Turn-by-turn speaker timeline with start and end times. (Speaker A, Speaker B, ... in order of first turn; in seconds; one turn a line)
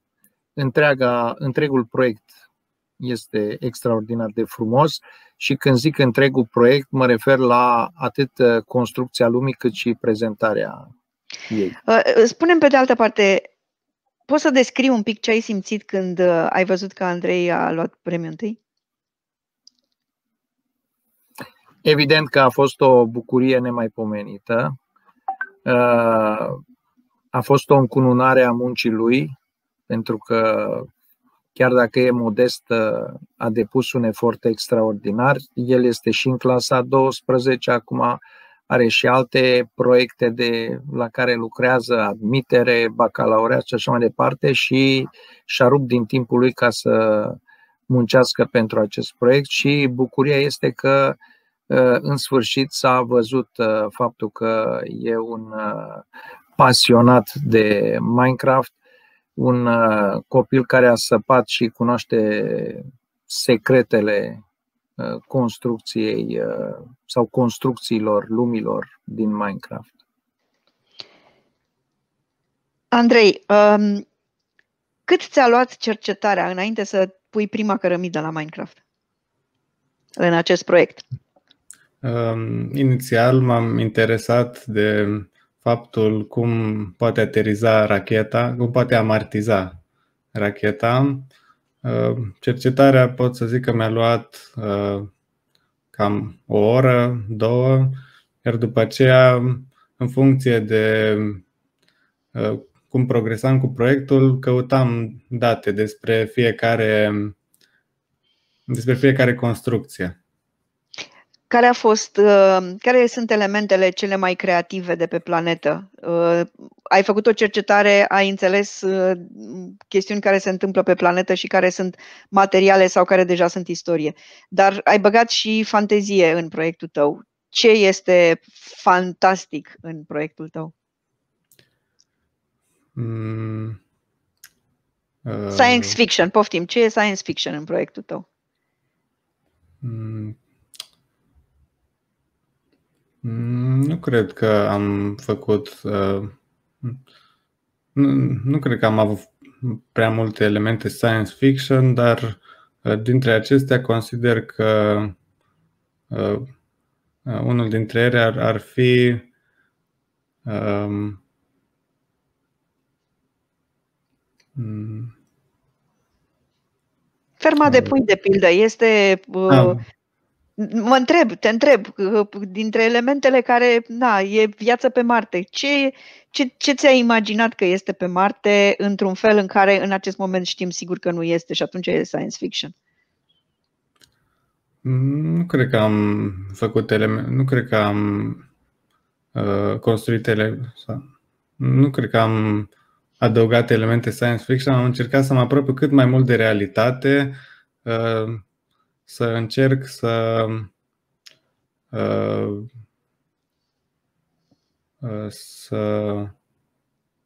Speaker A: 0.6-2.3
Speaker A: 3.0-10.9
Speaker A: 11.5-11.8
Speaker B: 11.8-13.5
Speaker B: 14.3-18.6
Speaker A: 21.8-24.8
Speaker A: 25.6-26.6
Speaker A: 27.3-29.3
Speaker A: 29.9-30.9
Speaker A: 31.6-47.4
Speaker A: 47.9-51.2
Speaker A: 51.7-56.0
Speaker A: 56.6-58.7
Speaker A: 59.4-64.4
Speaker A: 65.0-69.9
Speaker B: 72.9-74.0
Speaker B: 75.1-78.8
Speaker B: 80.2-81.0
Speaker C: 82.0-89.8
Speaker C: 90.3-91.3
Speaker C: 91.8-95.1
Speaker C: 95.9-101.4
Speaker C: 102.3-107.3
Speaker C: 108.7-110.2
Speaker B: 111.5-130.7
Speaker C: 132.9-133.8
Speaker C: 135.2-136.0
Speaker B: 135.5-138.2
Speaker C: 139.8-140.4
Speaker C: 143.2-147.0
Speaker C: 147.9-155.1
Speaker C: 156.1-156.5
Speaker C: 157.2-159.3
Speaker C: 160.4-161.2
Speaker C: 164.6-165.1
Speaker B: 167.4-169.8
Speaker C: 167.6-167.9
Speaker C: 169.5-169.8
Speaker B: 170.6-182.7
Speaker C: 184.8-188.4
Speaker C: 189.3-191.0
Speaker C: 191.6-192.7
Speaker C: 193.2-198.4
Speaker C: 199.1-200.7
Speaker C: 201.9-202.7
Speaker C: 205.0-206.3